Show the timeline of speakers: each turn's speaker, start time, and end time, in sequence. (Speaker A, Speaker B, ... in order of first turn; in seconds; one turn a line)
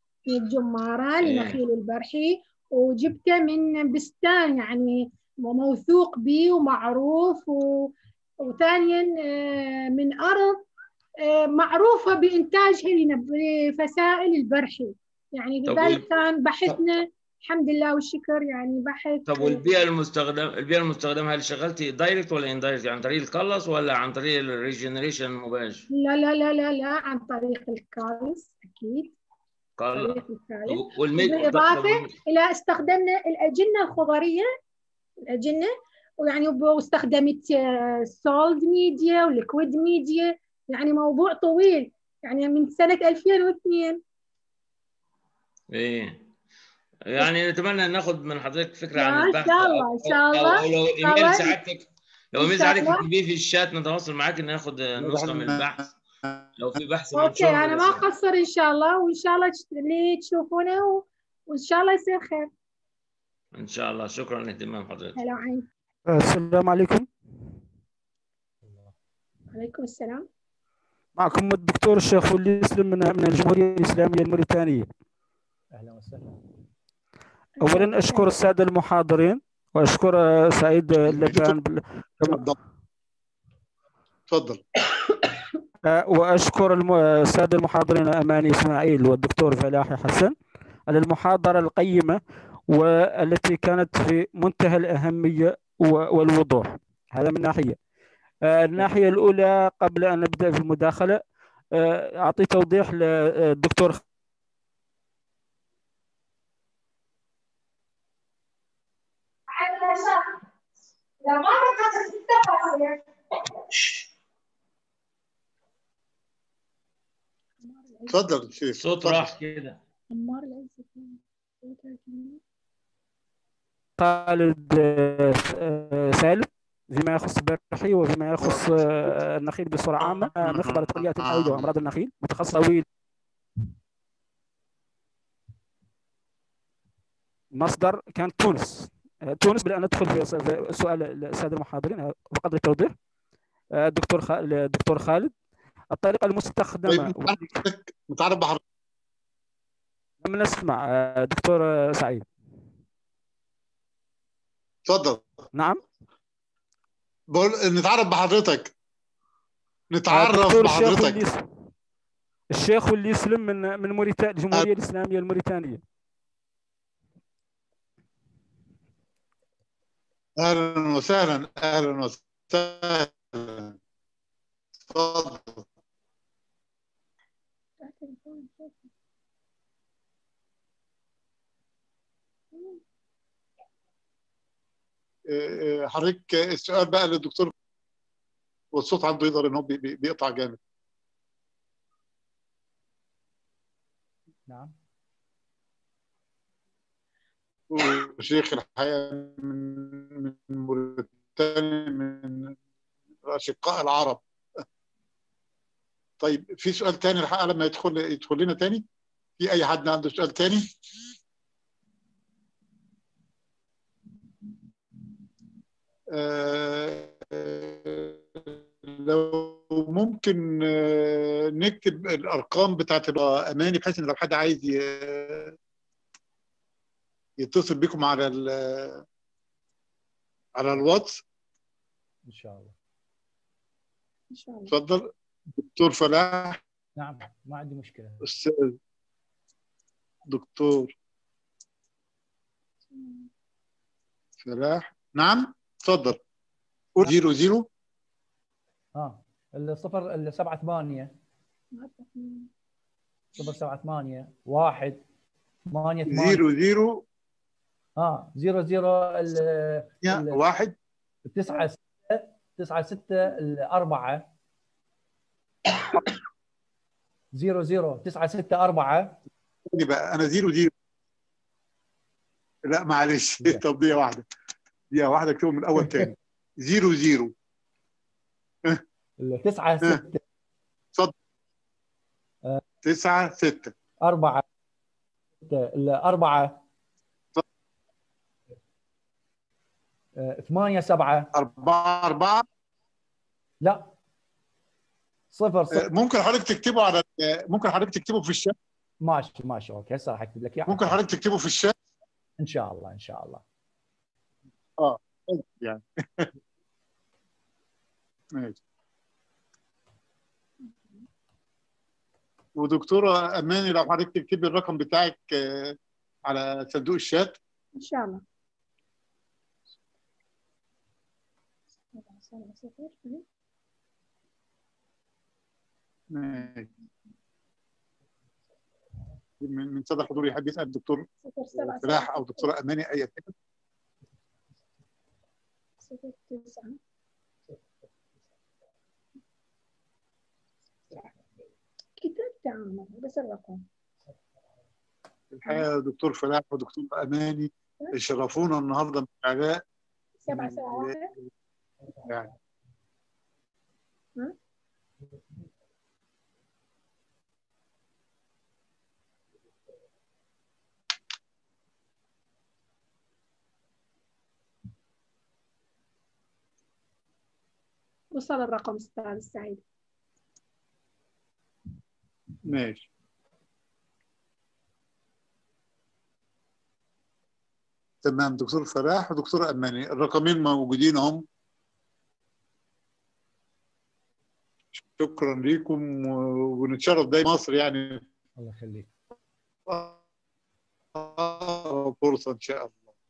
Speaker A: 0.3-7.9
Speaker B: 1.2-1.6
Speaker A: 8.4-10.6
Speaker A: 11.2-19.6
Speaker B: 15.6-16.0
Speaker B: 19.3-25.9
Speaker A: 25.9-29.1
Speaker B: 29.8-32.1
Speaker A: 29.9-34.4
Speaker A: 35.3-44.0
Speaker B: 45.7-46.2
Speaker B: 47.0-55.9
Speaker A: 48.9-51.5
Speaker A: 52.4-53.0
Speaker C: 55.0-56.4
Speaker B: 56.6-58.0
Speaker A: 57.1-62.5
Speaker B: 63.5-65.2
Speaker A: 65.2-65.7
Speaker D: 66.1-67.1
Speaker E: 68.7-68.9
Speaker A: 69.5-70.2
Speaker D: 71.2-74.9
Speaker E: 75.7-76.4
Speaker D: 77.6-82.4
Speaker A: 77.6-78.3
Speaker C: 81.1-81.5
Speaker C: 82.2-82.6
Speaker C: 84.3-84.6
Speaker D: 85.8-90.3
Speaker D: 90.9-97.8
Speaker D: 98.4-101.2
Speaker D: 101.7-104.0
Speaker A: 109.5-110.2
Speaker A: 111.2-113.9
Speaker A: 117.6-118.3
Speaker C: 118.1-119.3
Speaker B: 118.8-119.8
Speaker A: 120.1-122.4
Speaker D: 124.0-132.8
Speaker C: 128.4-129.1
Speaker C: 130.0-131.7
Speaker D: 137.5-142.9
Speaker D: 143.8-145.3
Speaker D: 145.9-147.3
Speaker C: 146.8-148.6
Speaker D: 150.2-152.3
Speaker C: 154.8-155.2
Speaker D: 155.5-155.8
Speaker C: 157.3-158.7
Speaker C: 159.9-161.2
Speaker D: 160.1-161.4
Speaker D: 162.5-165.8
Speaker C: 170.4-173.8
Speaker C: 174.9-175.7
Speaker A: 177.8-178.9
Speaker A: 182.5-182.8
Speaker C: 185.3-187.5
Speaker C: 188.7-190.6
Speaker E: 194.5-194.7
Speaker C: 197.7-202.5
Speaker C: 203.2-204.2
Speaker C: 206.2-208.8
Speaker C: 209.4-210.6
Speaker C: 216.1-225.5
Speaker C: 227.4-229.0
Speaker C: 230.6-231.2
Speaker E: 232.3-232.7
Speaker A: 234.3-234.7
Speaker C: 234.7-236.6
Speaker E: 236.9-238.2
Speaker C: 238.2-238.7
Speaker C: 240.3-240.9
Speaker A: 242.9-243.3
Speaker C: 244.4-246.2
Speaker C: 246.9-247.7
Speaker E: 248.9-251.1
Speaker A: 251.7-252.5
Speaker E: 253.4-255.0
Speaker E: 255.7-256.4
Speaker C: 256.1-257.0
Speaker E: 258.0-260.4
Speaker C: 260.0-260.8
Speaker E: 261.2-264.3
Speaker E: 267.3-269.2
Speaker C: 269.7-270.7
Speaker C: 272.6-274.2
Speaker C: 274.9-277.3
Speaker E: 279.2-280.2
Speaker C: 282.8-283.7
Speaker E: 284.0-284.4
Speaker E: 285.4-286.6
Speaker E: 290.1-291.3
Speaker C: 291.3-292.4
Speaker E: 293.6-293.9
Speaker E: 295.3-295.8
Speaker C: 295.7-298.5
Speaker E: 299.0-301.0
Speaker C: 300.7-301.7
Speaker E: 302.4-303.4
Speaker C: 304.8-306.3
Speaker A: 310.6-311.0
Speaker C: 312.6-317.4
Speaker A: 317.8-318.2
Speaker A: 321.9-323.2
Speaker C: 326.1-326.7
Speaker C: 329.4-331.0
Speaker A: 331.2-332.5
Speaker C: 331.5-333.3
Speaker A: 335.8-336.8
Speaker A: 342.0-343.6
Speaker C: 345.3-349.6
Speaker A: 350.2-351.1
Speaker C: 350.3-351.3
Speaker C: 352.0-352.3
Speaker A: 368.1-369.6
Speaker C: 372.4-372.9
Speaker C: 378.0-381.2
Speaker C: 384.7-388.0
Speaker E: 388.4-388.9
Speaker C: 389.7-390.0
Speaker C: 390.9-392.8